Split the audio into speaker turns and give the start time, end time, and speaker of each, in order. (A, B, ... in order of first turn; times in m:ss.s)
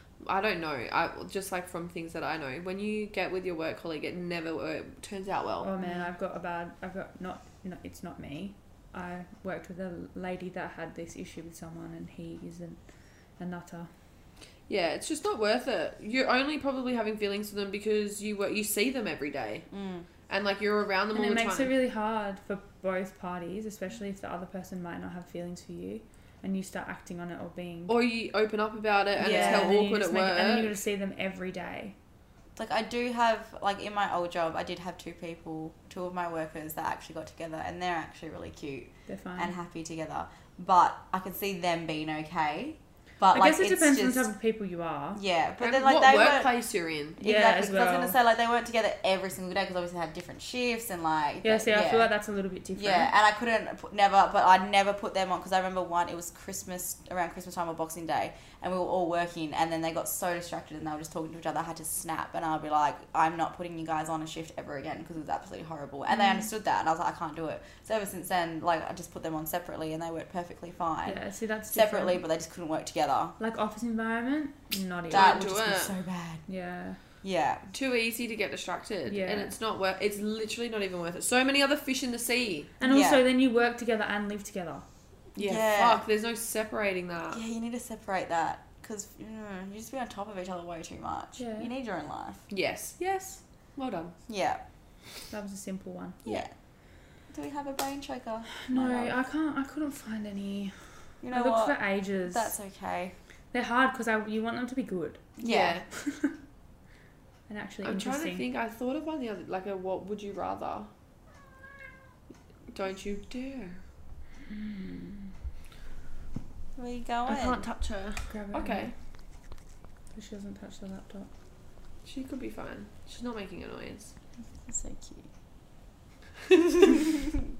0:00.2-0:05.7 A
0:05.6-0:12.8 B
0:13.4-0:13.9 B
0:14.7-0:19.7 A
0:19.7-0:20.0 C
0:20.3-0:21.7 A
0:21.1-0:27.9 B
0:27.9-0:30.8 A
0:29.2-0:29.8 C
0:29.2-0:32.0 B
0:32.6-0:44.3 C
0:39.1-0:39.6 B
0:43.3-0:45.2 B
0:45.1-0:46.5 C
0:45.6-0:47.2 A
0:47.2-0:52.1 C
0:47.2-0:48.2 B
0:51.4-0:53.1 B
0:52.8-1:11.2 C
1:06.1-1:06.5 B
1:11.0-1:12.2 B
1:11.7-1:13.3 C
1:13.4-1:15.6 B
1:15.1-1:16.4 C
1:15.1-1:16.0 A
1:16.5-1:17.0 B
1:17.2-1:17.6 C
1:17.7-1:22.7 A
1:19.1-1:19.5 B
1:22.8-1:24.8 B
1:22.9-1:23.2 C
1:25.4-1:26.0 C
1:25.4-1:27.4 A
1:27.3-1:32.4 C
1:31.4-1:31.7 B
1:32.5-1:34.1 A
1:34.3-1:34.6 C
1:35.3-1:36.2 B
1:36.2-1:36.5 C
1:37.3-1:39.1 C
1:38.5-1:42.5 B
1:41.2-1:43.1 C
1:43.5-1:45.3 B
1:45.4-1:45.8 C
1:45.4-1:45.8 A
1:46.0-1:46.3 B
1:47.5-1:48.4 B
1:47.8-1:50.9 A
1:52.7-1:53.8 A
1:54.5-1:55.3 B
1:56.8-1:57.6 C
1:57.2-1:58.9 A
1:58.3-1:58.9 B
2:00.1-2:01.3 B
2:02.0-2:04.1 A
2:04.6-2:05.2 C